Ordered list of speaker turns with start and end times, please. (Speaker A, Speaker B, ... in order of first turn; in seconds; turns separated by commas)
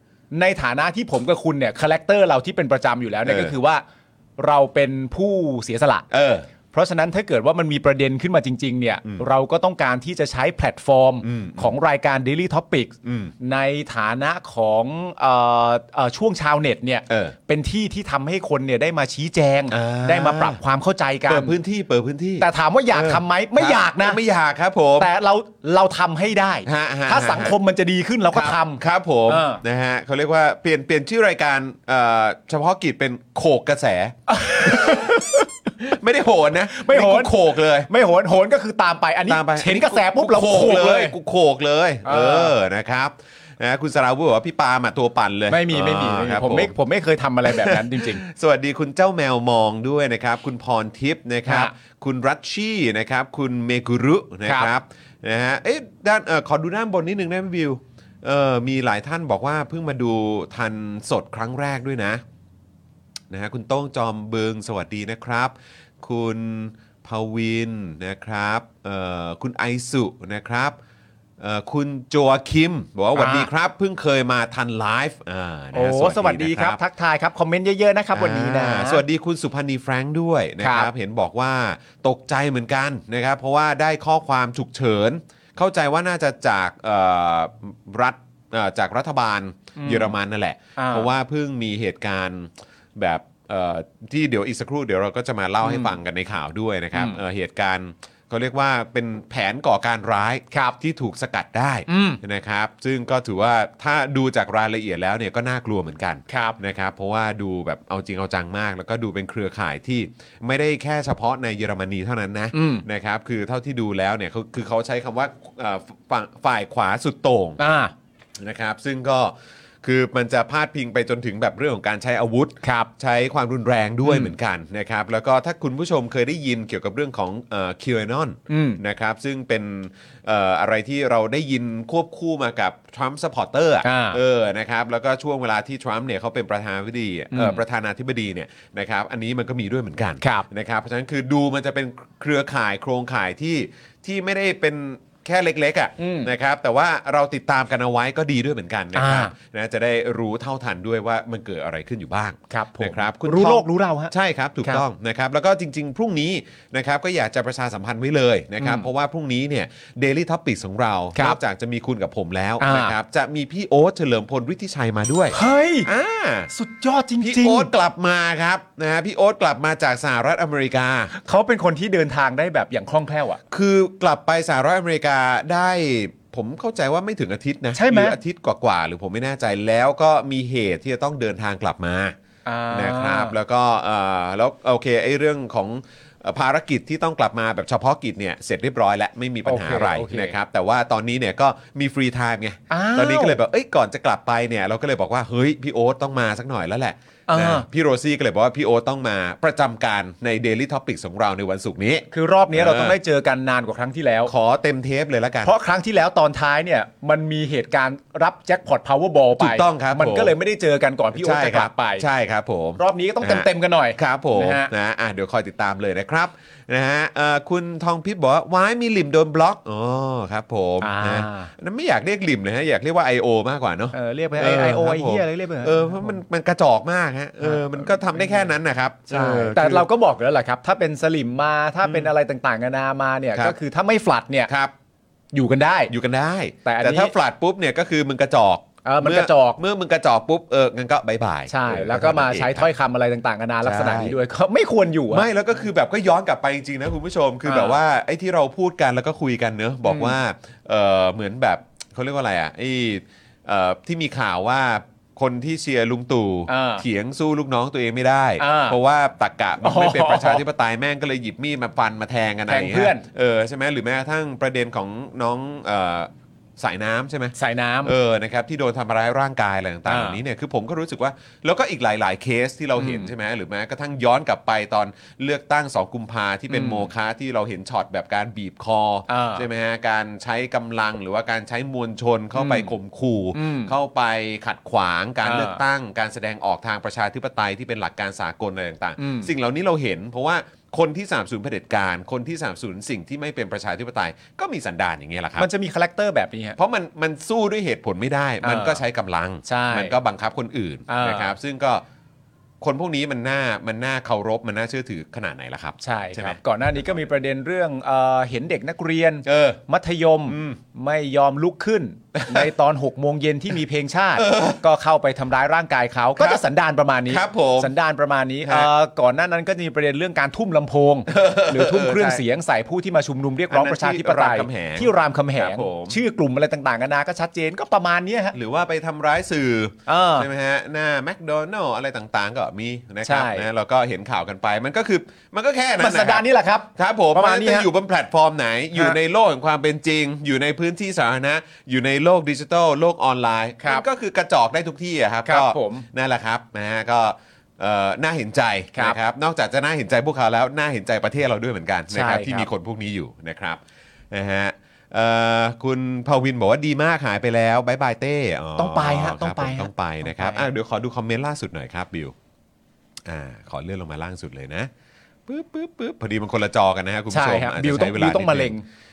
Speaker A: 0.3-3.8, Speaker B: 3.2-3.5, Speaker A: 4.4-6.1, Speaker B: 6.1-6.5, Speaker A: 6.7-21.6, Speaker B: 11.2-11.8, Speaker B: 13.0-13.3, Speaker B: 17.1-17.4, Speaker B: 19.7-20.6, Speaker B: 21.3-25.1, Speaker A: 22.4-24.2, Speaker A: 25.0-29.6, Speaker B: 26.7-27.6, Speaker B: 28.3-37.9, Speaker A: 34.3-35.4, Speaker A: 36.7-41.1, Speaker B: 39.3-46.7, Speaker A: 42.0-42.5, Speaker A: 45.5-48.2, Speaker B: 47.5-62.2, Speaker A: 51.5-51.7, Speaker B: 63.3-70.8, Speaker B: 71.4-76.8, Speaker A: 73.2-73.5, Speaker A: 75.7-79.0, Speaker B: 78.1-117.6, Speaker A: 80.6-80.9, Speaker A: 89.8-90.2, Speaker A: 90.8-91.1, Speaker A: 95.6-96.0, Speaker A: 96.9-97.2, Speaker A: 100.5-100.8, Speaker A: 101.9-102.2, Speaker A: 106.3-106.6, Speaker A: 112.5-112.8, Speaker A: 117.6-117.9, Speaker B: 118.4-166.5, Speaker A: 122.6-122.9, Speaker A: 124.0-124.3, Speaker A: 128.5-128.8, Speaker A: 133.8-134.2, Speaker A: 137.3-137.6, Speaker A: 140.2-140.5, Speaker A: 146.0-146.3, Speaker A: 148.9-149.3, Speaker A: 152.5-154.8, Speaker A: 158.6-158.9, Speaker A: 162.6-162.9, Speaker A: 165.3-165.9, Speaker A: 166.5-167.7, Speaker B: 167.2-171.1, Speaker A: 171.2-173.4, Speaker B: 173.5-182.2, Speaker A: 177.7-178.2, Speaker A: 182.5-183.4, Speaker B: 182.7-203.0, Speaker A: 189.4-190.3, Speaker A: 192.7-193.4, Speaker A: 197.3-197.7, Speaker A: 202.1-204.3, Speaker B: 204.3-205.5, Speaker A: 205.4-212.1, Speaker B: 209.4-210.3, Speaker B: 211.1-229.9, Speaker A: 212.8-214.7, Speaker A: 220.8-221.5, Speaker A: 223.9-226.2, Speaker A: 227.4-228.5, Speaker A: 229.1-234.5, Speaker B: 231.8-232.1, Speaker B: 234.5-234.7, Speaker A: 235.3-235.9, Speaker B: 235.9-242.7, Speaker A: 236.6-237.1, Speaker A: 238.8-239.6, Speaker A: 241.5-245.3, Speaker B: 243.6-244.2, Speaker B: 245.1-295.5, Speaker A: 247.4-247.8, Speaker A: 249.9-250.1, Speaker A: 256.5-256.8, Speaker A: 258.4-258.8, Speaker A: 259.6-260.4, Speaker A: 262.5-263.1, Speaker A: 267.4-267.9, Speaker A: 269.9-270.2, Speaker A: 272.8-273.1, Speaker A: 276.5-276.9, Speaker A: 279.1-279.5, Speaker A: 282.3-282.7, Speaker A: 283.3-283.7, Speaker A: 285.2-285.6, Speaker A: 289.0-289.3, Speaker A: 295.4-296.6, Speaker B: 296.6-301.8, Speaker A: 298.4-298.8, Speaker A: 299.4-299.9, Speaker A: 300.9-301.3, Speaker B: 302.6-306.4, Speaker A: 305.8-328.4, Speaker B: 309.3-309.6, Speaker B: 310.3-310.6, Speaker B: 312.1-312.5, Speaker B: 314.2-314.6, Speaker B: 316.2-316.4, Speaker B: 317.1-317.7, Speaker B: 318.4-318.7, Speaker B: 321.1-322.2, Speaker B: 323.5-326.0, Speaker B: 328.3-336.2, Speaker A: 329.9-330.3, Speaker A: 333.0-333.5, Speaker A: 335.8-337.7, Speaker B: 336.8-362.1, Speaker A: 345.3-345.9, Speaker A: 351.9-352.5, Speaker A: 358.6-360.5, Speaker B: 363.1-364.7, Speaker B: 365.3-368.6, Speaker A: 367.1-368.6